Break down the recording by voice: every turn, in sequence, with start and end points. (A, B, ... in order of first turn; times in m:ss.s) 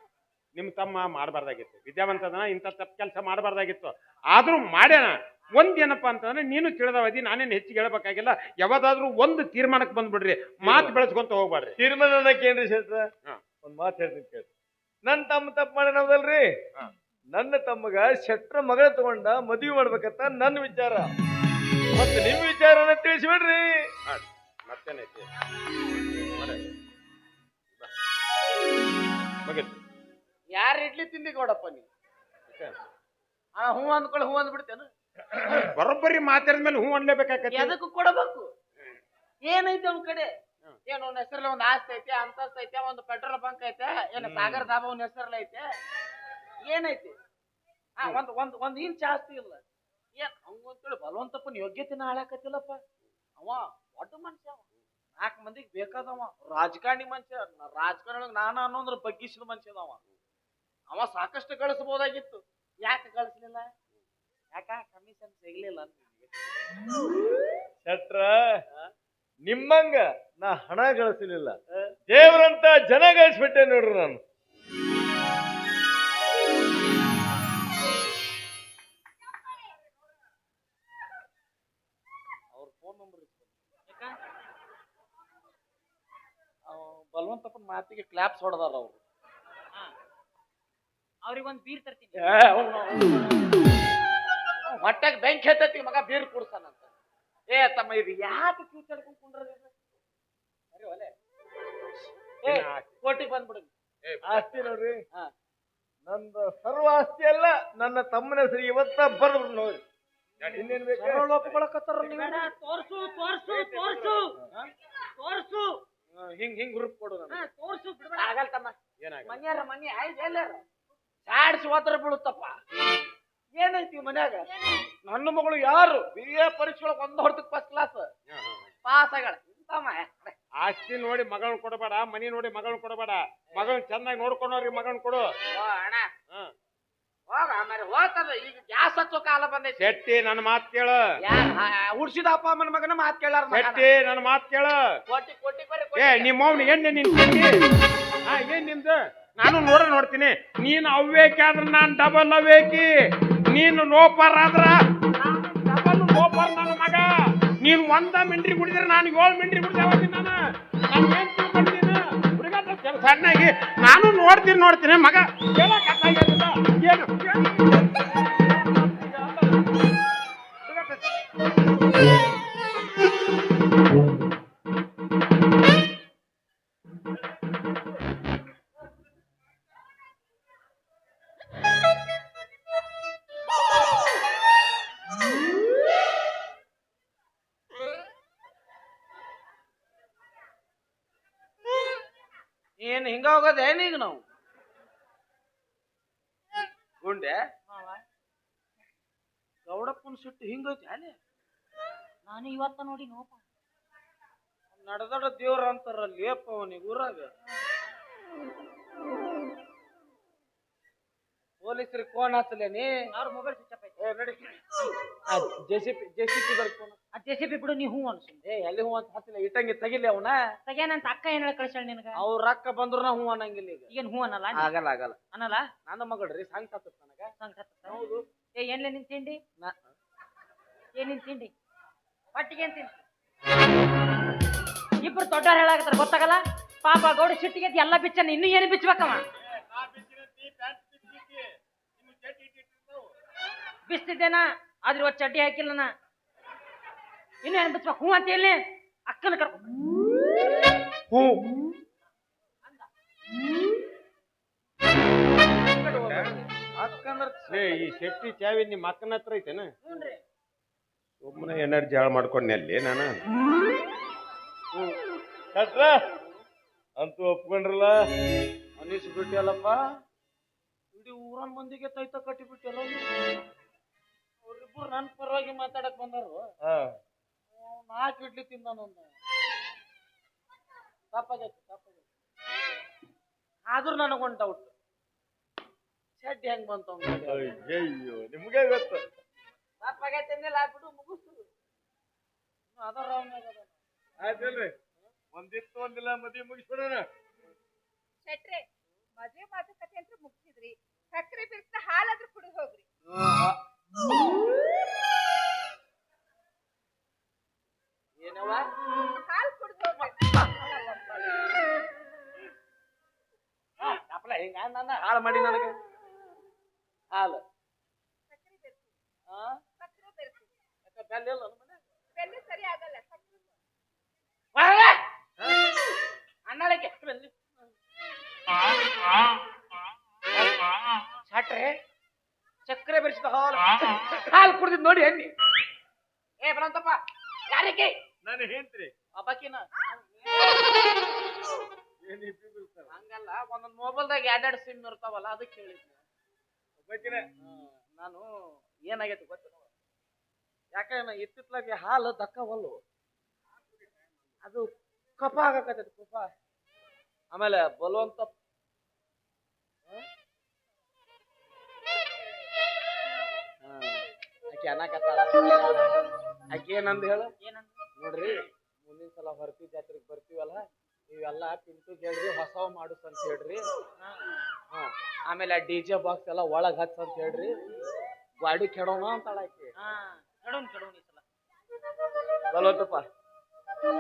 0:00.6-0:11.8 A
0:10.6-0:11.0 B
0:11.8-0:13.1 B
0:13.6-0:14.5 B
0:15.0-0:16.5 B
0:17.3-0:21.1 B
0:21.9-0:23.9 B
0:24.1-0:25.2 A
0:26.4-0:26.6 A
0:29.4-0:29.8 A
0:30.5-0:31.9 C
0:32.5-0:32.8 A
0:33.6-0:34.9 C
0:35.5-0:37.8 A
0:37.5-0:38.5 C
0:39.4-0:40.3 C
0:40.9-0:45.6 C
0:44.2-0:44.7 B
0:46.6-0:47.1 C
0:48.0-0:49.6 C
0:50.2-0:52.8 C
0:53.4-0:54.6 C
0:55.2-1:00.0 C
1:00.9-1:03.7 C
1:04.5-1:06.3 C
1:07.8-1:08.4 B
1:09.5-1:11.6 B
1:12.1-1:14.2 B
1:22.5-1:23.5 C
1:23.9-1:24.1 D
1:26.7-1:29.0 C
1:31.2-1:32.4 D
1:32.2-1:33.3 C
1:34.7-1:36.9 C
1:37.5-1:39.7 C
1:40.7-1:41.1 C
1:42.4-1:44.4 C
1:42.4-1:43.0 A
1:44.2-1:45.0 B
1:46.0-1:49.8 B
1:50.4-1:50.6 A
1:50.6-1:51.2 B
1:51.0-1:52.5 C
1:52.0-1:54.3 D
1:53.5-1:54.4 B
1:55.2-1:55.8 D
1:56.1-1:57.4 C
1:57.3-1:58.3 D
1:58.2-2:00.6 C
1:59.0-1:59.4 A
2:01.2-2:02.5 C
2:03.6-2:04.5 C
2:05.0-2:08.1 C
2:08.3-2:08.7 A
2:08.9-2:10.4 C
2:10.6-2:15.3 A
2:15.5-2:16.1 C
2:17.3-2:20.0 C
2:19.8-2:21.0 A
2:21.2-2:23.9 C
2:23.5-2:24.8 A
2:25.1-2:26.4 C
2:26.0-2:27.5 A
2:28.2-2:32.9 A
2:33.5-2:37.1 A
2:37.6-2:40.4 A
2:40.9-2:47.2 A
2:48.4-2:49.3 C
2:50.6-2:51.1 A
3:12.8-3:14.2 C
3:17.0-3:17.4 C
3:17.7-3:18.0 D
3:19.6-3:21.2 C
3:22.2-3:23.4 D
3:24.8-3:27.3 C
3:31.6-3:32.9 C
3:33.1-3:33.9 D
3:34.0-3:34.6 C
3:35.3-3:37.0 C
3:37.1-3:38.4 D
3:38.4-3:40.4 C
3:40.6-3:42.2 D
3:42.2-3:43.9 C
3:43.9-3:44.7 D
3:44.5-3:45.2 C
3:45.3-3:45.6 D
3:45.9-3:47.3 C
3:47.4-3:48.0 D
3:47.9-3:48.2 C
3:48.6-3:49.4 D
3:51.0-3:51.5 D
3:52.4-3:53.0 D
3:55.0-3:59.2 D
3:59.5-4:01.5 A
4:02.0-4:03.1 A
4:03.9-4:05.9 D
4:07.4-4:09.7 D
4:11.1-4:11.4 C
4:15.6-4:17.9 C
4:17.5-4:19.7 A
4:19.9-4:20.2 D
4:21.2-4:23.1 A
4:25.5-4:26.0 B
4:27.0-4:28.0 B
4:28.8-4:29.8 C
4:30.9-4:33.0 C
4:34.4-4:36.5 C
4:36.6-4:37.0 B
4:37.5-4:39.1 C
4:41.1-4:42.0 C
4:43.7-4:44.7 C
4:46.2-4:47.6 C
4:47.3-4:49.0 B
4:49.8-4:51.4 C
4:52.7-4:53.7 C
4:54.2-4:54.7 B
4:55.3-4:57.0 B
4:58.2-4:58.6 E
4:59.2-5:02.8 E
5:03.1-5:03.6 C
5:08.2-5:08.6 C
5:09.2-5:10.1 E
5:10.0-5:11.6 C
5:13.8-5:15.8 C
5:17.1-5:17.4 C
5:18.3-5:18.9 E
5:19.3-5:19.6 C
5:19.8-5:20.5 E
5:20.8-5:21.8 C
5:22.2-5:23.4 E
5:24.5-5:25.0 C
5:26.5-5:27.4 C
5:31.3-5:31.8 C
5:32.7-5:35.3 C
5:36.4-5:37.0 C
5:37.5-5:37.9 C
5:38.2-5:38.9 B
5:39.1-5:40.6 C
5:42.0-5:42.9 B
5:42.9-5:46.0 C
5:46.8-5:47.2 B
5:47.4-5:48.2 C
5:48.9-5:49.6 C
5:50.7-5:52.8 C
5:55.2-5:56.3 C
5:57.3-5:58.3 C
6:03.6-6:05.4 C
6:06.5-6:07.3 C
6:07.4-6:07.8 D
6:08.0-6:13.6 C
6:14.7-6:17.5 C
6:18.4-6:19.7 C
6:19.8-6:21.2 D
6:22.5-6:23.0 B